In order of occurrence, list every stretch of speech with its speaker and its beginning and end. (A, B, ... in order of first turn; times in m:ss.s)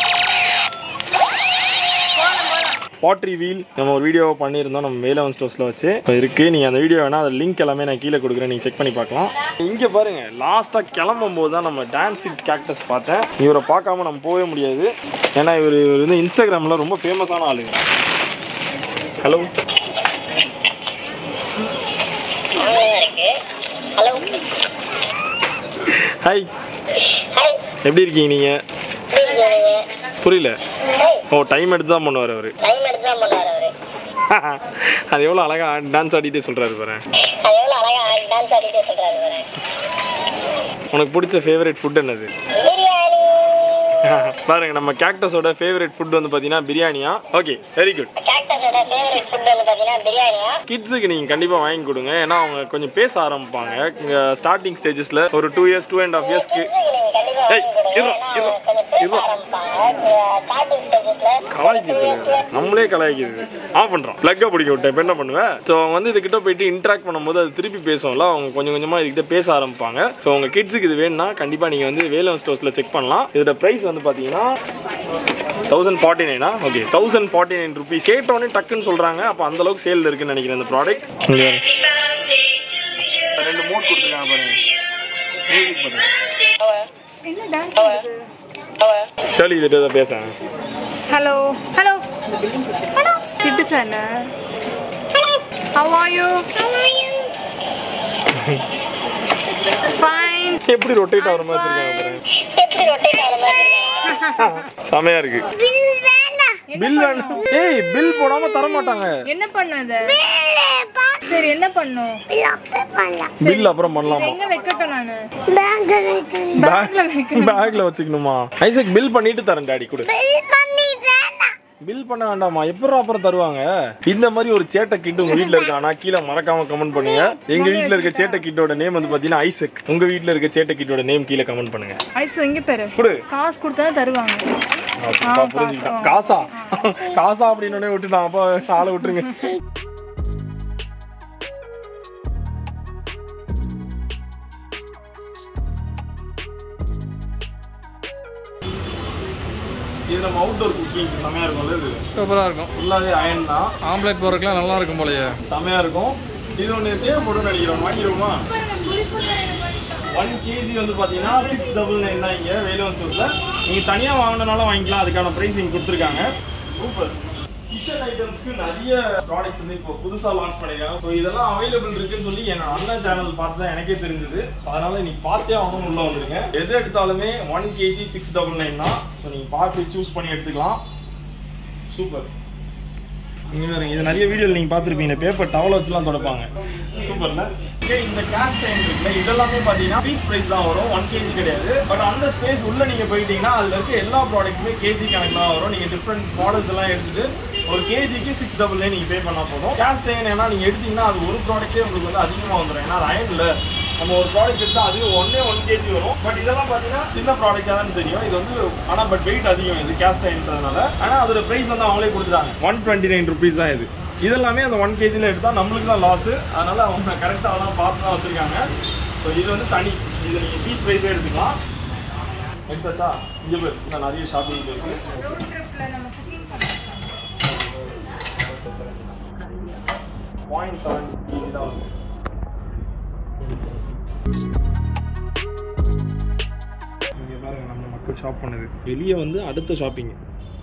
0:03.0-0:17.8 A
0:19.2-0:19.5 A
0:22.6-0:23.3 B
0:24.0-0:24.4 B
0:25.8-0:26.5 A
0:27.1-0:27.6 B
0:27.8-0:28.6 A
0:29.1-0:29.8 B
0:30.2-0:30.6 A
0:31.0-0:31.2 B
0:31.3-0:32.6 A
0:32.6-0:33.7 B
0:34.3-0:37.0 A
0:37.3-0:39.5 B
0:40.9-0:42.3 A
0:42.6-0:44.0 B
0:44.0-0:48.1 A
0:48.2-0:50.6 B
0:50.7-0:56.7 A
0:56.2-1:02.5 B
0:57.5-0:59.3 A
1:01.5-1:14.5 A
1:15.7-1:21.6 A
1:23.4-1:24.6 A
1:25.5-1:26.1 A
1:27.3-1:28.2 C
1:29.3-1:30.3 A
1:31.1-1:32.1 C
1:32.8-1:34.1 C
1:35.2-1:35.4 B
1:35.8-1:36.5 C
1:36.6-1:37.4 B
1:38.3-1:38.6 A
1:39.9-1:40.6 C
1:40.7-1:42.2 A
1:41.2-1:42.2 C
1:42.4-1:44.2 B
1:44.1-1:44.6 C
1:44.4-1:45.4 A
1:45.6-1:46.6 B
1:46.7-1:47.4 C
1:46.8-1:49.2 A
1:49.3-1:50.1 C
1:50.0-1:51.2 B
1:51.3-1:52.2 C
1:52.3-1:53.4 B
1:53.4-1:54.4 A
1:53.4-1:55.2 C
1:55.5-1:56.8 B
1:56.6-1:57.8 C
1:56.6-2:00.1 A
2:00.0-2:01.5 B
2:01.8-2:12.0 A
2:05.3-2:05.7 B
2:07.0-2:08.4 C
2:12.2-2:14.4 C
2:13.0-2:13.2 A
2:15.0-2:19.5 A
2:15.2-2:16.8 C
2:30.1-2:32.0 A
2:32.1-2:32.7 D
2:32.8-2:33.8 A
2:33.8-2:35.4 D
2:35.4-2:38.5 A
2:38.5-2:40.0 C
2:40.1-3:00.8 A
3:01.9-3:02.3 A
3:03.5-3:38.7 A
3:39.2-3:41.6 A
3:42.7-3:45.2 A
3:44.9-3:47.2 C
3:47.4-3:49.4 A
3:50.5-3:51.9 A
3:53.4-3:54.0 A
3:57.2-4:00.2 A